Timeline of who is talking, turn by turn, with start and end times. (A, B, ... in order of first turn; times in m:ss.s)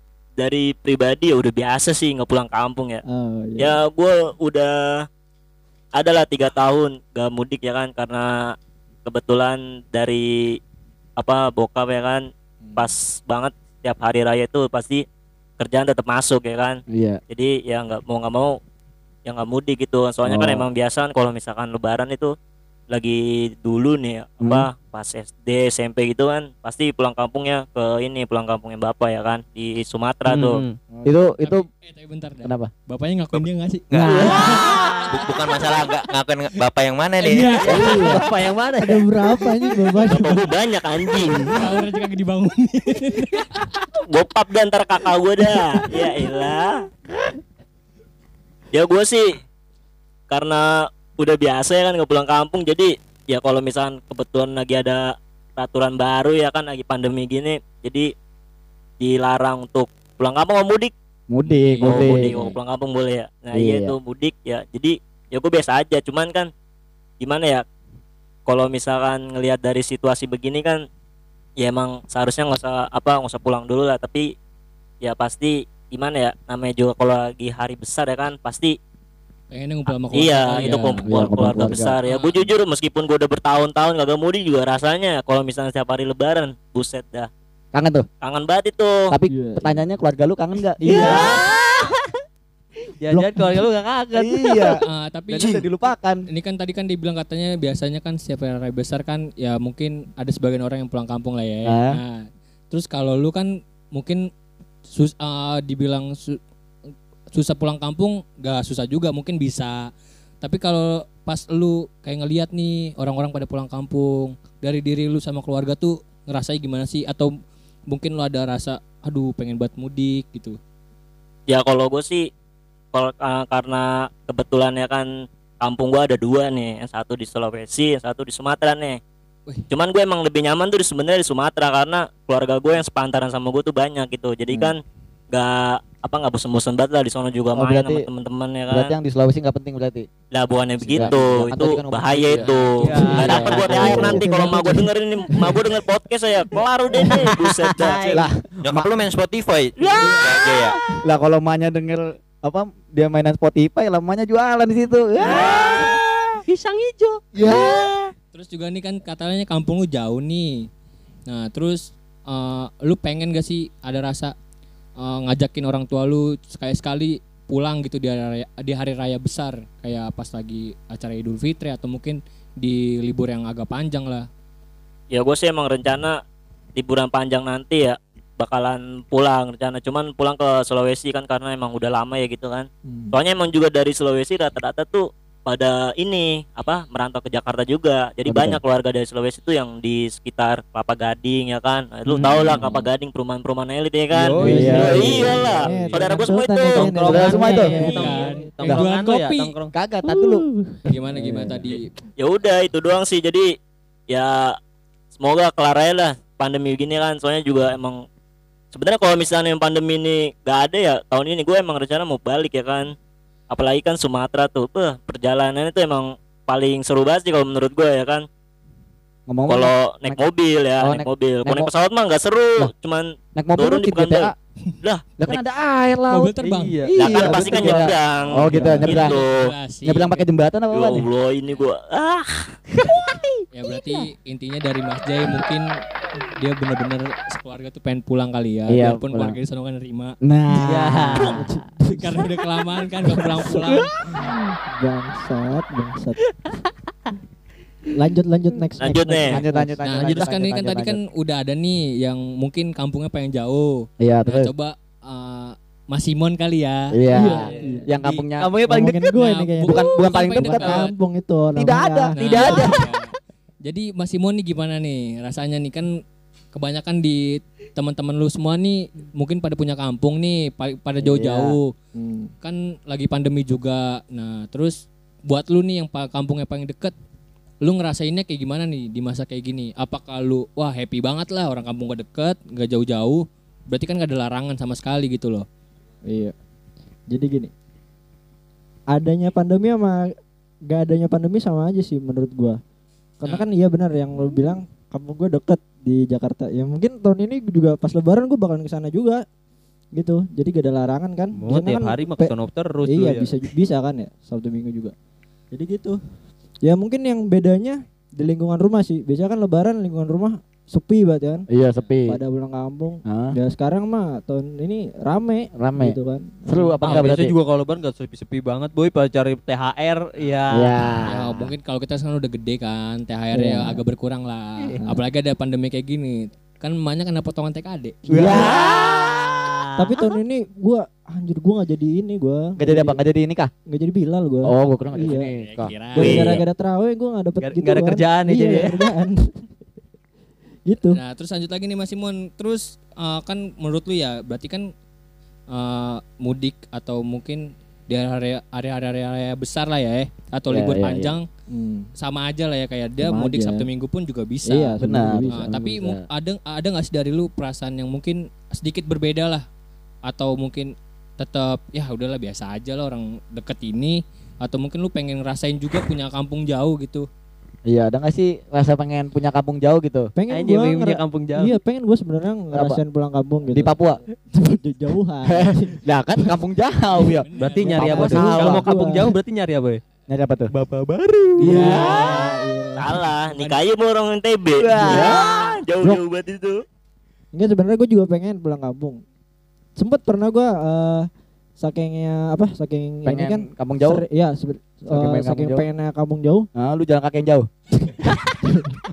0:00.4-0:03.0 A
0:03.1-0:03.8 B
0:03.6-0:05.0 A
0:05.9-0:08.3 A
0:09.0-0:10.6 A
0:11.2-0:12.2 A
0:12.6-0:12.9 B
0:12.8-0:15.0 A
0:15.6-0:18.6 A
0:16.9-0:17.2 C
0:19.2-0:22.3 A
0:20.2-0:20.7 C
0:22.9-0:30.6 A
0:24.4-0:24.7 C
0:30.3-0:30.8 D
0:30.9-0:31.2 B
0:31.0-0:31.6 C
0:31.4-0:35.9 E
0:32.4-0:32.7 C
0:33.9-0:34.3 F
0:33.9-0:35.5 D
0:34.0-0:34.3 C
0:35.1-0:37.6 F
0:37.2-0:38.2 E
0:37.5-0:38.2 B
0:37.6-0:39.5 D
0:37.7-0:38.1 C
0:38.8-0:40.5 B
0:40.0-0:41.6 A
0:41.5-0:43.7 E
0:44.1-0:46.7 A
0:48.7-0:49.3 A
0:50.3-0:58.1 A
0:59.0-1:00.9 A
1:01.3-1:02.5 C
1:01.4-1:02.2 E
1:01.8-1:06.5 A
1:03.5-1:04.0 C
1:07.2-1:07.6 A
1:08.5-1:10.8 A
1:11.6-1:14.3 A
1:15.0-1:18.8 A
1:19.5-1:21.0 E
1:20.1-1:27.3 A
1:21.0-1:22.0 C
1:21.3-1:21.7 B
1:22.0-1:22.5 E
1:27.7-1:28.0 C
1:28.2-1:28.9 A
1:29.1-1:31.4 C
1:29.3-1:29.8 B
1:30.8-1:32.1 D
1:30.8-1:31.3 B
1:33.0-1:34.8 D
1:33.1-1:33.6 B
1:34.1-1:34.8 C
1:34.8-1:35.6 E
1:35.3-1:36.2 C
1:35.4-1:35.6 F
1:36.3-1:44.2 E
1:41.6-1:42.0 C
1:44.9-1:46.4 E
1:47.3-1:49.8 E
1:50.4-1:57.3 E
1:57.9-2:00.6 E
2:01.5-2:02.3 A
2:02.9-2:05.1 A
2:05.6-2:09.0 A
2:09.7-2:14.8 A
2:15.3-2:18.9 A
2:17.5-2:18.0 C
2:18.7-2:20.1 C
2:20.3-2:28.2 A
2:20.8-2:24.7 C
2:22.4-2:23.9 E
2:22.8-2:24.5 D
2:23.7-2:24.8 B
2:27.0-2:28.3 D
2:28.1-2:28.9 C
2:28.6-2:30.8 F
2:29.8-2:31.0 D
2:30.0-2:30.3 E
2:31.0-2:35.8 C
2:35.2-2:38.1 D
2:37.3-2:37.9 C
2:38.3-2:40.7 E
2:41.3-2:44.3 E
2:45.0-2:54.3 E
2:55.1-2:56.2 A
2:56.8-3:16.9 A
3:02.9-3:03.1 B
3:08.2-3:08.6 C
3:12.1-3:12.8 D
3:12.2-3:12.7 B
3:14.1-3:20.9 D
3:14.4-3:15.4 C
3:14.4-3:18.5 B
3:17.1-3:17.8 C
3:17.4-3:19.5 E
3:19.7-3:20.4 C
3:20.8-3:21.9 E
3:21.1-3:21.7 B
3:22.2-3:23.5 A
3:24.1-3:24.5 A
3:25.2-3:28.0 A
3:28.7-3:32.9 A
3:33.5-3:38.2 A
3:39.3-3:40.2 C
3:39.5-3:45.4 A
3:40.8-3:41.7 C
3:43.3-3:44.3 C
3:45.2-3:46.3 C
3:46.1-3:46.8 E
3:46.4-3:47.9 D
3:46.9-3:49.2 C
3:47.0-3:49.5 A
3:48.5-3:48.8 B
3:48.8-3:50.2 E
3:49.8-3:51.1 C
3:50.7-3:52.6 A
3:52.8-3:53.4 D
3:53.5-3:55.7 E
3:56.4-4:00.2 E
3:58.7-3:59.4 C
4:00.2-4:01.4 C
4:00.5-4:01.5 D
4:01.3-4:02.3 B
4:01.9-4:04.0 E
4:03.3-4:03.8 D
4:04.1-4:06.2 B
4:08.0-4:10.1 B
4:08.8-4:09.4 A
4:09.3-4:11.0 C
4:09.8-4:18.3 E
4:14.0-4:14.5 C
4:16.9-4:19.0 C
4:17.1-4:17.8 B
4:17.3-4:17.8 D
4:18.4-4:18.8 D
4:18.6-4:22.2 B
4:19.1-4:20.9 E
4:19.6-4:20.9 C
4:21.5-4:22.8 C
4:22.2-4:23.0 E
4:22.4-4:22.7 D
4:23.6-4:25.9 E
4:26.5-4:31.7 E
4:31.2-4:31.5 C
4:32.0-4:32.3 B
4:32.4-4:36.9 E
4:37.6-4:45.4 E
4:46.1-4:46.3 B
4:47.1-4:47.5 B
4:48.9-4:50.1 B
4:50.7-4:52.6 B
4:53.2-4:59.2 B
5:00.0-5:04.9 B
5:01.3-5:03.3 D
5:05.5-5:06.0 B
5:06.6-5:11.5 B
5:11.5-5:12.2 C
5:12.1-5:17.0 B
5:13.0-5:13.4 C
5:15.6-5:17.3 C
5:16.8-5:20.9 D
5:20.5-5:21.5 C
5:21.1-5:28.0 E
5:23.3-5:23.8 B
5:28.0-5:28.5 B
5:28.1-5:28.6 C
5:28.1-5:30.1 D
5:29.8-5:33.0 B
5:32.6-5:33.5 C
5:33.7-5:35.3 B
5:34.4-5:36.1 C
5:35.3-5:36.3 E
5:35.9-5:39.3 B
5:36.0-5:36.4 A
5:37.4-5:38.8 D
5:40.7-5:41.0 B
5:40.9-5:44.7 E
5:45.5-5:51.2 E
5:50.5-5:51.1 C
5:51.5-5:51.9 B
5:52.0-5:54.8 E
5:53.0-5:53.6 B
5:54.5-5:55.5 B
5:54.8-5:56.0 C
5:55.3-5:59.4 E
6:00.1-6:07.1 E
6:07.7-6:10.1 C
6:10.2-6:13.7 B
6:10.3-6:11.6 D
6:12.5-6:12.8 C
6:13.5-6:14.0 C
6:14.3-6:15.8 B
6:15.3-6:18.7 C
6:17.3-6:17.8 E
6:17.4-6:19.8 D
6:17.6-6:19.1 B
6:20.1-6:20.5 C
6:20.5-6:22.0 D
6:21.4-6:22.1 C
6:21.4-6:23.0 B
6:21.5-6:21.9 E
6:22.0-6:26.6 A
6:23.3-6:23.6 E
6:24.6-6:25.6 D
6:24.9-6:25.1 C
6:27.3-6:29.0 B
6:29.8-6:31.1 B
6:31.6-6:36.5 B
6:33.0-6:34.0 C
6:34.9-6:35.7 C
6:36.5-6:37.5 C
6:38.3-6:38.8 B